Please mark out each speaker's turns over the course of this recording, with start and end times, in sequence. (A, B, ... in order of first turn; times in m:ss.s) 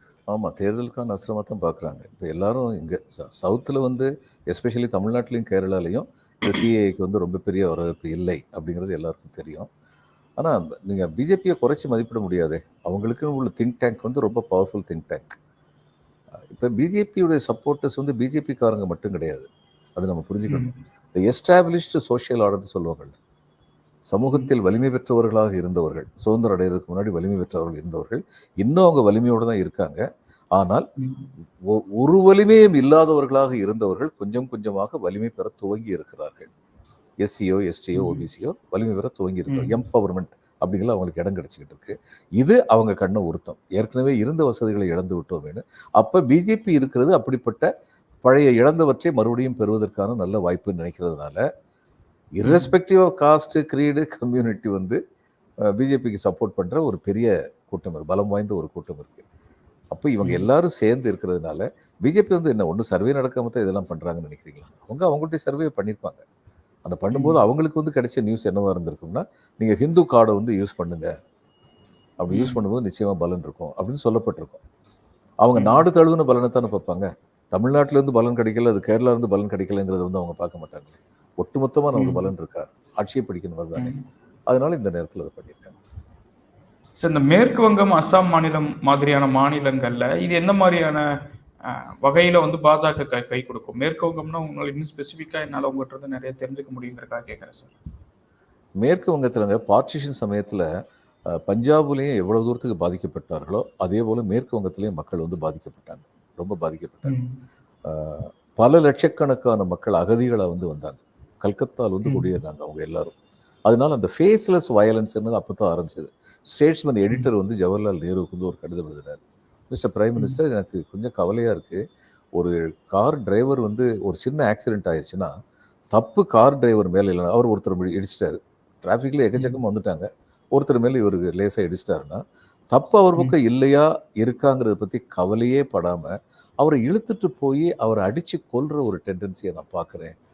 0:00.3-0:09.7 A
0:10.4-0:15.4 A
0:16.5-0:23.1 A
0:20.5-0:20.7 B
0:24.1-0:30.0 A
0:30.6-0:30.8 A
0:31.0-0:31.3 B
0:31.7-0:36.5 A
0:37.2-0:47.7 A
0:38.0-0:38.2 B
0:39.5-0:39.8 B
0:48.2-0:51.4 A
0:52.4-0:55.0 A
0:52.4-0:52.7 B
0:55.7-0:59.2 A
0:59.9-1:06.2 A
1:00.2-1:00.5 B
1:06.8-1:11.1 A
1:07.1-1:07.4 B
1:12.2-1:14.6 A
1:12.3-1:12.6 B
1:15.4-1:23.9 A
1:15.5-1:15.8 B
1:21.9-1:22.2 B
1:23.8-1:24.0 B
1:24.5-1:25.8 A
1:27.0-1:31.0 B
1:31.6-1:37.7 B
1:38.8-1:40.6 A
1:41.3-1:47.2 A
1:47.0-1:47.4 B
1:47.8-1:53.1 A
1:52.0-1:52.3 B
1:53.7-1:59.2 A
1:59.7-2:01.8 A
2:02.3-2:05.3 A
2:05.9-2:12.2 A
2:12.7-2:20.1 A